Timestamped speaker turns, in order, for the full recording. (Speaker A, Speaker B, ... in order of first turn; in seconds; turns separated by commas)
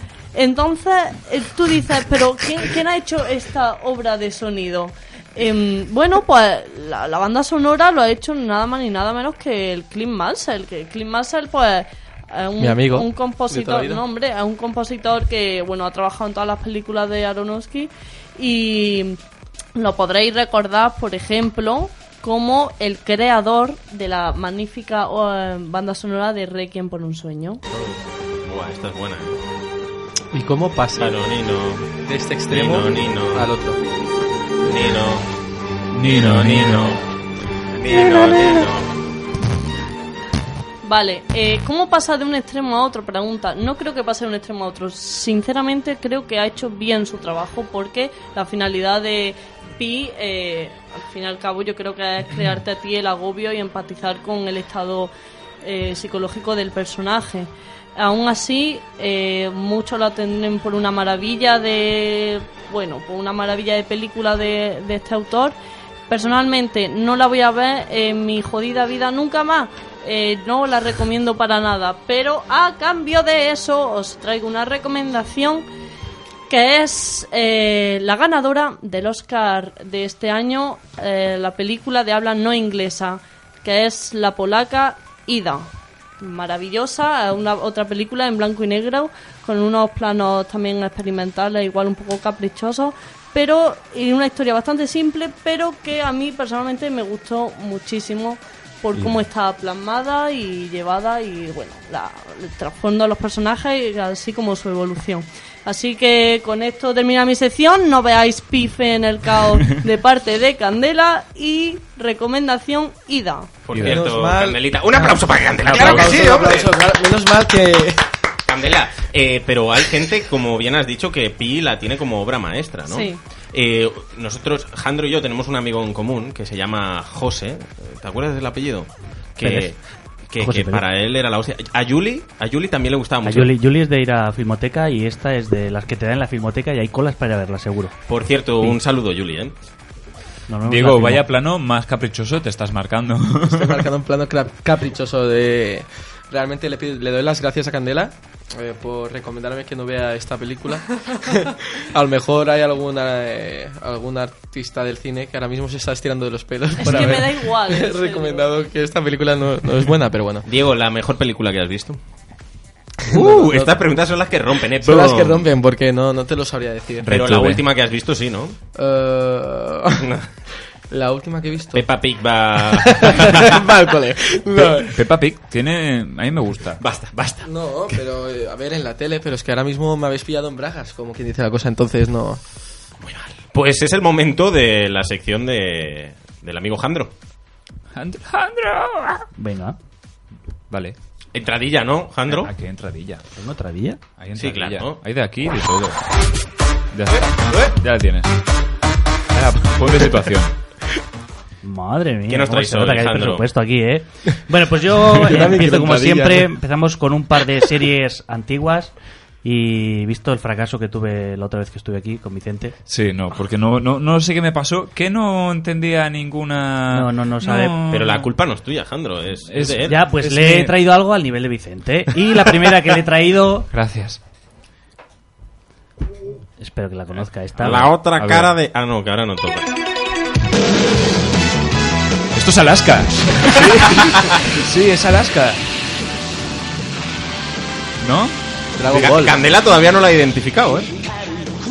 Speaker A: 0.3-19.2, Speaker B: 12.6-14.0, Speaker A: 19.8-27.6, Speaker C: 28.4-29.4, Speaker B: 30.3-31.2, Speaker C: 31.0-31.9, Speaker B: 32.0-33.8, Speaker C: 32.5-33.5, Speaker C: 34.6-35.2, Speaker D: 35.9-37.0, Speaker C: 36.0-37.0, Speaker C: 37.7-38.9, Speaker A: 40.8-55.1, Speaker A: 55.6-65.5, Speaker A: 66.1-75.6, Speaker A: 76.5-113.5, Speaker C: 113.7-116.7, Speaker D: 113.7-114.1, Speaker B: 113.8-118.0, Speaker C: 118.5-129.8, Speaker A: 122.9-123.2, Speaker E: 129.4-129.7, Speaker C: 130.3-133.5, Speaker E: 130.4-130.8, Speaker E: 133.2-137.9, Speaker C: 138.1-139.5, Speaker E: 140.5-141.2, Speaker D: 140.6-143.8, Speaker B: 143.5-160.4, Speaker A: 156.8-158.4, Speaker C: 156.9-157.1, Speaker C: 160.4-162.0, Speaker B: 163.1-163.8, Speaker C: 163.1-165.5, Speaker B: 164.8-167.1, Speaker D: 167.0-167.6, Speaker C: 167.1-168.6, Speaker B: 168.7-170.0, Speaker C: 170.0-170.3, Speaker B: 170.9-171.8, Speaker C: 171.7-173.6, Speaker B: 172.7-174.9, Speaker D: 174.6-176.8, Speaker C: 176.8-178.0, Speaker B: 177.4-182.4, Speaker C: 183.0-187.1, Speaker D: 187.9-189.2, Speaker E: 189.4-189.8, Speaker D: 190.7-190.9, Speaker C: 191.3-192.5, Speaker D: 192.3-193.2, Speaker E: 193.3-194.0, Speaker D: 194.2-196.0, Speaker C: 194.3-195.0, Speaker D: 196.9-198.3, Speaker D: 199.3-200.5, Speaker E: 201.6-212.7, Speaker C: 202.3-203.4, Speaker B: 205.2-206.5, Speaker D: 212.9-218.3, Speaker E: 216.9-217.8, Speaker C: 217.9-220.0, Speaker D: 219.5-220.8, Speaker E: 219.8-223.7, Speaker D: 223.7-224.2, Speaker E: 226.6-227.9, Speaker C: 227.2-229.7, Speaker D: 227.6-228.5, Speaker D: 232.3-235.6, Speaker C: 233.9-234.3, Speaker D: 238.0-238.3, Speaker B: 238.8-239.2, Speaker C: 238.9-240.9